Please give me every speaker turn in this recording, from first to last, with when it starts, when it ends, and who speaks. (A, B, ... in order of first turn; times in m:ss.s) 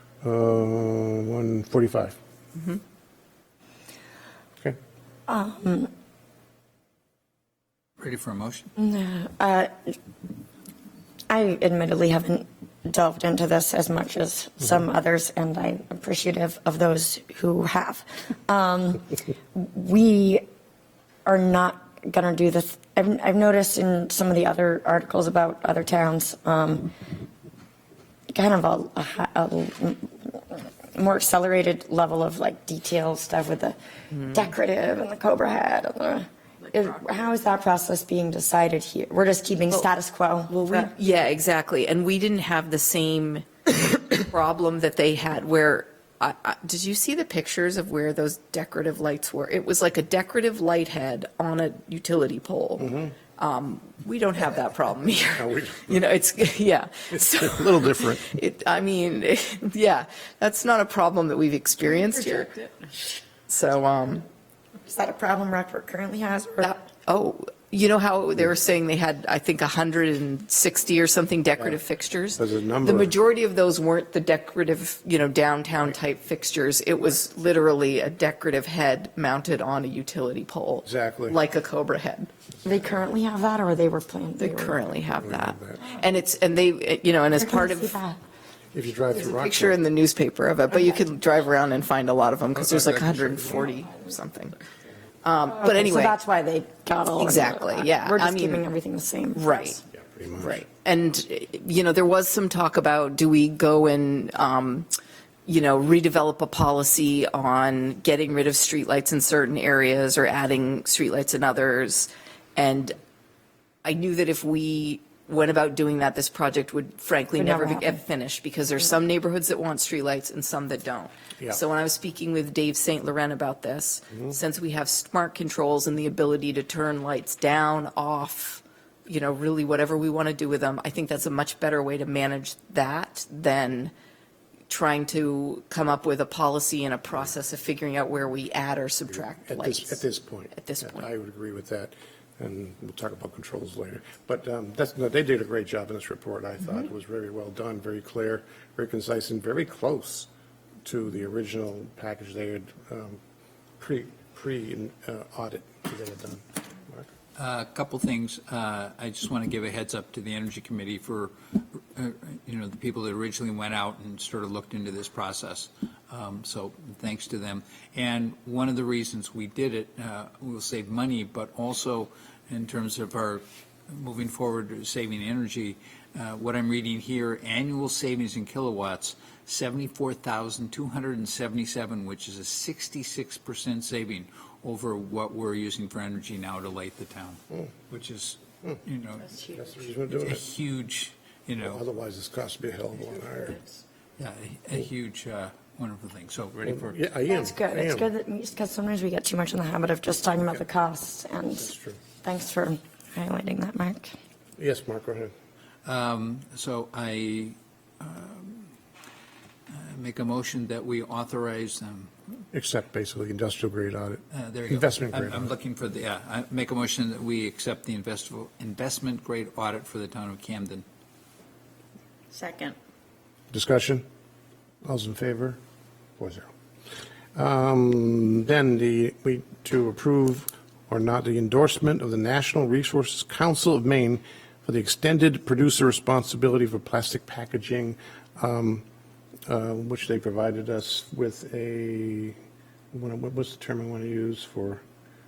0:00.2-0:02.2 A
0:02.5-0:02.8 B
0:05.3-0:05.9 C
0:08.0-0:08.7 D
0:08.8-0:09.9 C
0:11.3-0:20.4 C
0:21.2-0:26.9 C
0:28.3-0:33.8 C
0:34.3-0:40.9 C
0:40.5-1:02.7 B
0:52.8-0:53.1 A
0:55.4-0:56.0 A
0:57.1-0:58.3 A
1:03.5-1:04.2 B
1:04.8-1:06.8 C
1:06.6-1:22.3 B
1:12.4-1:13.1 A
1:20.8-1:21.4 A
1:22.6-1:24.8 C
1:24.4-1:28.0 B
1:25.2-1:25.8 A
1:27.3-1:28.2 C
1:28.7-1:29.8 A
1:29.1-1:34.6 B
1:32.5-1:33.7 A
1:35.2-1:36.2 B
1:35.5-1:39.8 C
1:37.2-1:38.6 B
1:39.3-1:39.8 B
1:39.9-1:40.6 A
1:40.4-1:44.9 B
1:45.4-1:53.0 B
1:53.8-2:13.9 B
1:57.4-1:58.0 C
2:14.7-2:21.1 B
2:19.1-2:30.3 A
2:30.8-2:33.2 A
2:33.8-2:37.1 A
2:37.4-3:09.4 D
3:09.5-3:10.4 A
3:10.1-3:11.8 D
3:11.6-3:13.6 A
3:14.2-3:17.0 D
3:16.6-3:18.1 A
3:17.3-3:21.7 C
3:21.5-3:22.0 A
3:22.2-3:24.1 C
3:24.6-3:25.3 A
3:25.8-3:28.7 D
3:29.7-3:32.1 D
3:32.5-3:35.5 A
3:34.3-3:40.8 D
3:42.3-3:42.8 C
3:43.5-3:44.0 A
3:44.8-3:45.6 A
3:46.2-3:46.5 A
3:47.3-3:58.8 A
3:59.5-4:02.4 A
4:02.9-4:04.8 A